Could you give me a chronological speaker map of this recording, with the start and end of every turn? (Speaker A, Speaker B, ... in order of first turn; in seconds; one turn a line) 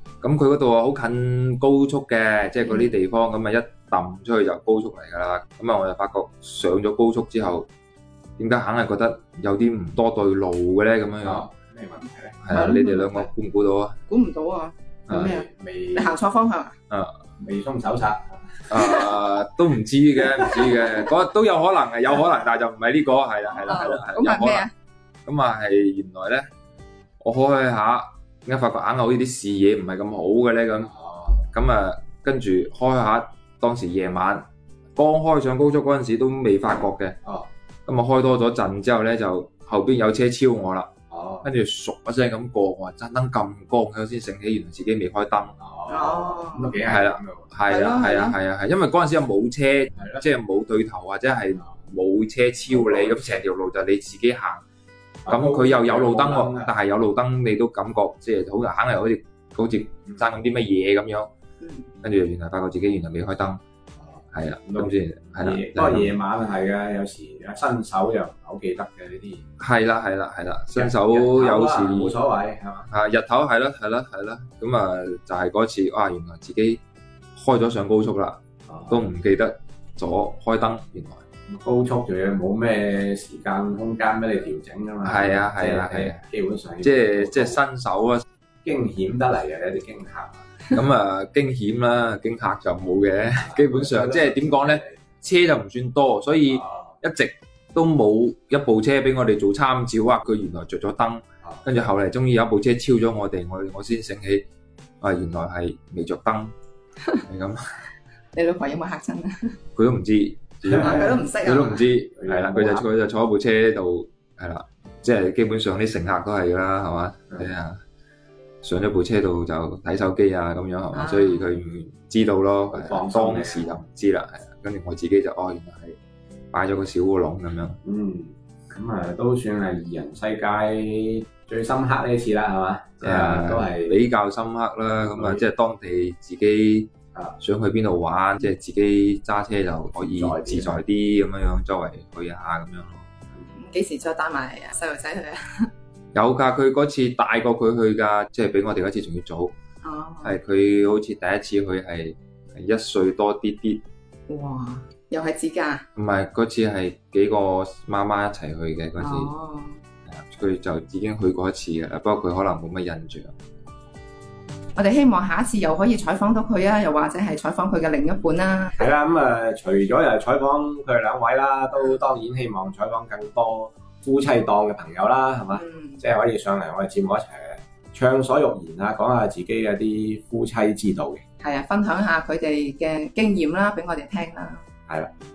Speaker A: 0.2-7.7
Speaker B: 2.6-3.0
Speaker A: 8.4-11.5
Speaker C: 11.2-12.5
Speaker A: 12.4-14.0
Speaker B: 12.5-13.3
Speaker B: 14.1-16.8
Speaker C: 15.1-16.2
Speaker A: 16.9-17.2
Speaker C: 17.4-18.3
Speaker A: 18.7-24.7
Speaker B: 18.7-19.1
Speaker B: 20.4-21.0
Speaker B: 23.6-24.7
Speaker A: 25.3-26.5
Speaker A: 27.2-30.9
Speaker C: 30.9-31.5
Speaker A: 31.5-34.5
Speaker A: 35.0-37.2
Speaker A: 37.9-40.9
Speaker C: 41.1-41.5
Speaker A: 41.4-45.5
Speaker C: 45.6-47.6
Speaker B: 45.9-46.8
Speaker A: 46.8-54.6
Speaker B: 47.6-48.4
Speaker C: 50.0-50.3
Speaker C: 52.7-53.5
Speaker C: 55.3-56.7
Speaker A: 55.3-61.3
Speaker B: 61.6-61.9
Speaker A: 62.0-63.6
Speaker C: 64.1-69.4
Speaker A: 64.3-66.2
Speaker A: 69.6-72.2
Speaker C: 70.7-72.9
Speaker A: 72.9-76.8
Speaker A: 77.4-81.2
Speaker C: 78.7-79.1
Speaker C: 81.5-87.6
Speaker A: 85.0-86.2
Speaker A: 86.8-88.2
Speaker C: 88.6-90.6
Speaker A: 90.7-104.5
Speaker C: 93.4-95.0
Speaker C: 96.5-96.9
Speaker A: 105.0-106.5
Speaker A: 107.2-107.8
Speaker B: 108.3-109.6
Speaker A: 109.8-117.8
Speaker B: 110.8-111.9
Speaker C: 112.2-112.9
Speaker A: 118.6-126.0
Speaker B: 120.9-121.5
Speaker C: 122.7-123.8
Speaker A: 126.5-127.8
Speaker C: 127.8-134.0
Speaker A: 133.0-143.1
Speaker C: 135.1-135.4
Speaker C: 140.0-140.8
Speaker B: 143.5-145.7
Speaker A: 146.2-149.5
Speaker B: 149.8-150.4
Speaker A: 150.2-153.8
Speaker B: 154.3-155.8
Speaker A: 156.0-159.3
Speaker B: 159.0-159.8
Speaker A: 160.1-163.3
Speaker B: 164.8-168.9
Speaker C: 168.8-181.2
Speaker B: 175.5-176.0
Speaker B: 181.4-184.7